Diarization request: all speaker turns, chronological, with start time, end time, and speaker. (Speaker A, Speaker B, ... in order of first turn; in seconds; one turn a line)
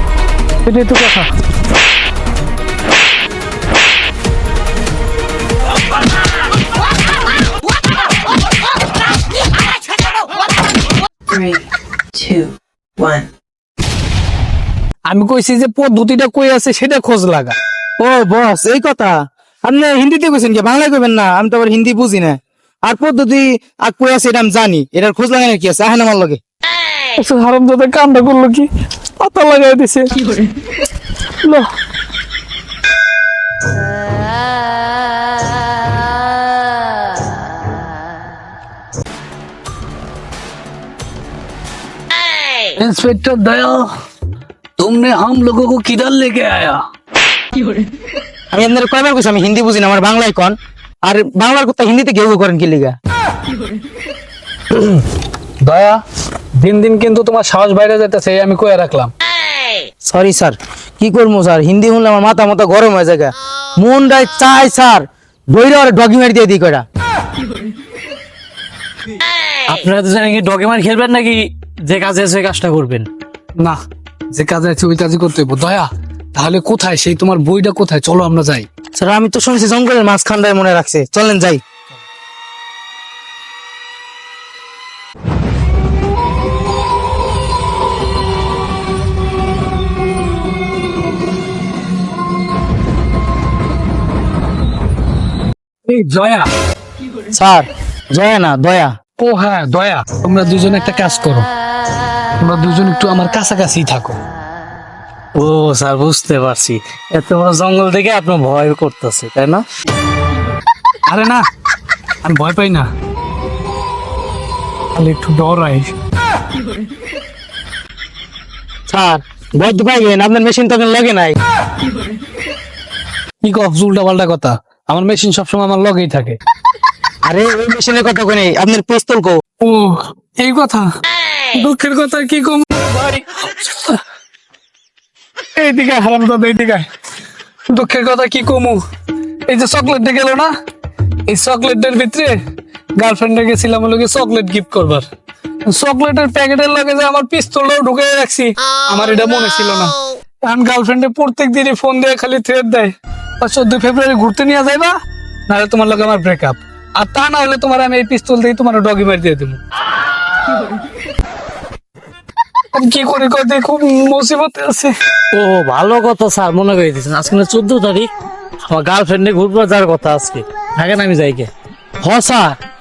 Speaker A: 0.7-1.3
Speaker B: 11.3-13.3
Speaker A: 15.1-17.6
Speaker C: 18.0-26.4
Speaker A: 27.2-28.7
Speaker A: 29.2-30.3
Speaker A: 31.4-31.7
Speaker A: 42.8-43.9
Speaker A: 44.8-46.8
Speaker C: 48.5-53.0
Speaker A: 54.7-55.0
Speaker A: 55.6-56.0
Speaker A: 56.6-59.1
Speaker C: 60.0-66.9
Speaker D: 69.7-73.1
Speaker A: 74.3-78.7
Speaker C: 79.0-81.6
Speaker A: 95.9-96.5
Speaker C: 97.3-98.9
Speaker A: 99.2-101.5
Speaker A: 102.4-104.2
Speaker D: 105.3-109.7
Speaker A: 111.1-111.4
Speaker A: 112.2-112.9
Speaker A: 115.0-115.9
Speaker C: 118.9-121.4
Speaker A: 123.4-126.4
Speaker C: 127.2-129.4
Speaker A: 129.6-130.9
Speaker A: 131.5-134.0
Speaker A: 135.6-136.9
Speaker A: 137.7-138.8
Speaker A: 139.5-140.5
Speaker A: 141.3-142.4
Speaker A: 143.0-145.1
Speaker A: 145.7-154.9
Speaker A: 155.5-159.6
Speaker A: 162.7-164.9
Speaker D: 165.3-168.1
Speaker D: 168.6-171.5
Speaker C: 172.0-172.6